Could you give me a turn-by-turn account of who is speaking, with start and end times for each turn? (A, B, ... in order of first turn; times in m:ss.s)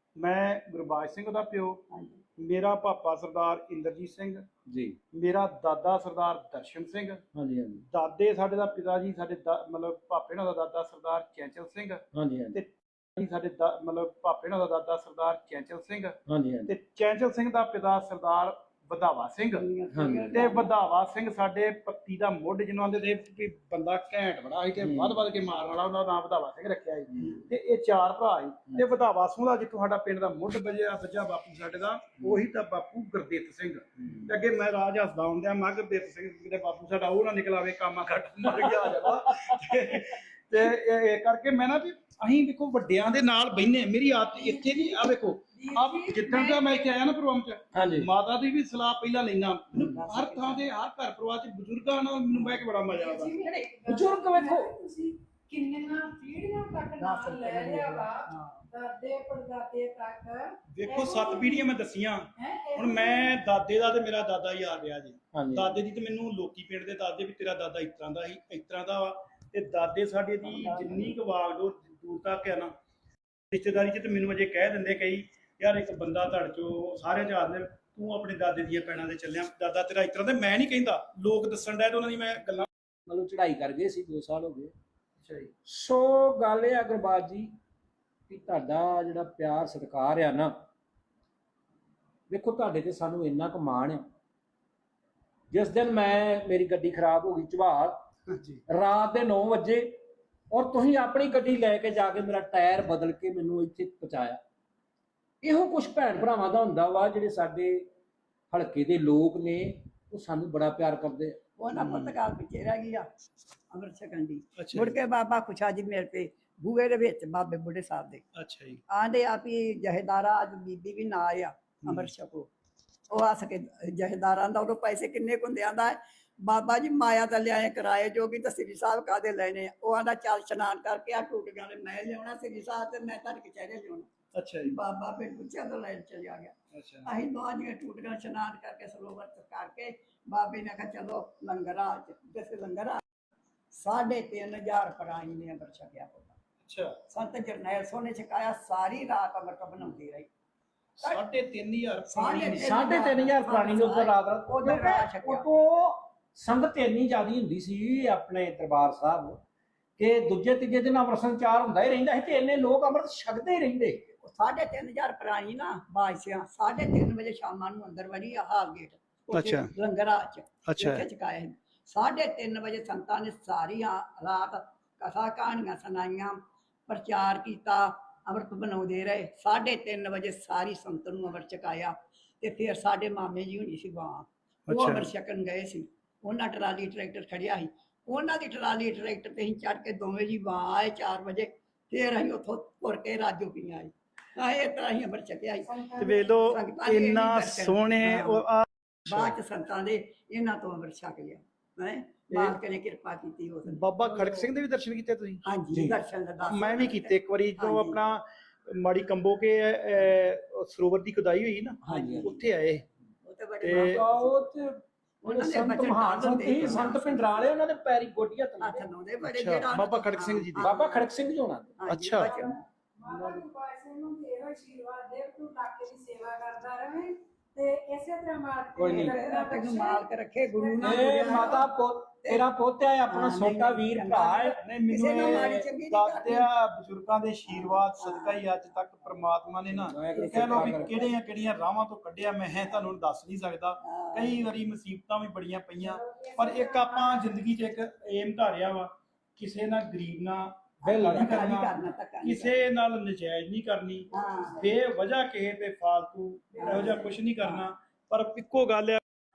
0:00.2-0:01.8 A
0:01.9-0:02.2 B
0:02.4-0:04.5 A
0:04.7-0:05.0 C
0:05.1-0:07.2 A
0:07.4-0:07.8 C
0:07.9-0:16.2 A
0:12.1-0:12.6 C
0:16.3-0:16.7 C
0:16.7-0:19.7 A
0:19.5-0:20.7 B
0:19.9-0:20.5 C
0:20.3-0:53.4 A
0:24.8-0:25.2 C
0:38.5-0:39.5 C
0:44.3-0:45.0 D
0:45.5-0:46.9 D
0:47.8-0:48.1 C
0:49.8-0:50.6 B
0:52.9-1:01.7 D
0:53.9-0:54.7 C
0:57.0-0:58.6 B
1:00.7-1:12.7 A
1:02.4-1:03.4 D
1:05.4-1:05.8 C
1:10.6-1:11.1 B
1:13.5-1:22.7 A
1:23.1-1:24.7 C
1:25.2-1:25.5 A
1:25.7-1:27.5 C
1:28.3-1:30.5 C
1:32.3-1:34.0 C
1:35.5-1:38.0 C
1:38.3-1:38.6 A
1:38.7-1:40.0 C
1:40.5-1:44.4 C
1:45.4-1:47.9 C
1:48.5-1:51.4 C
1:51.6-1:53.1 B
1:51.7-1:52.2 A
1:53.7-1:58.2 B
1:54.6-1:55.0 A
1:58.4-1:58.8 A
1:58.9-2:02.5 B
2:01.8-2:02.1 A
2:03.1-2:14.1 B
2:14.3-2:14.8 A
2:14.6-2:16.5 B
2:16.7-2:17.1 A
2:17.1-2:23.0 B
2:23.7-2:26.4 B
2:26.6-2:27.0 A
2:27.1-2:30.3 B
2:31.0-2:32.8 A
2:32.1-2:35.5 B
2:32.5-2:39.4 C
2:40.0-2:44.0 C
2:44.2-3:15.9 B
2:49.3-2:49.7 A
2:50.7-2:51.0 A
3:04.7-3:05.1 A
3:15.7-3:16.5 D
3:16.0-3:19.4 A
3:16.4-3:18.4 B
3:19.1-3:23.8 B
3:23.7-3:25.4 A
3:24.0-3:24.5 C
3:25.4-3:28.0 B
3:25.7-3:26.0 C
3:26.4-3:32.8 A
3:31.8-3:32.3 C
3:31.9-3:32.4 B
3:33.2-3:34.4 B
3:33.6-3:34.0 A
3:33.7-3:38.8 C
3:35.2-3:37.5 B
3:36.5-3:36.9 A
3:38.6-3:41.1 B
3:39.2-3:40.7 A
3:40.6-3:41.7 C
3:41.8-3:42.6 B
3:41.9-3:42.3 A
3:42.2-3:51.6 D
3:48.8-3:49.2 C
3:48.9-3:51.7 B
3:50.8-3:54.6 C
3:53.1-3:56.5 B
3:54.6-4:19.0 A
3:55.1-3:55.7 C
3:57.5-3:58.4 B
3:59.7-4:01.0 C
4:00.1-4:01.1 B
4:03.8-4:04.5 B
4:05.9-4:07.3 D
4:10.8-4:12.6 B
4:14.1-4:14.7 B
4:16.5-4:17.7 B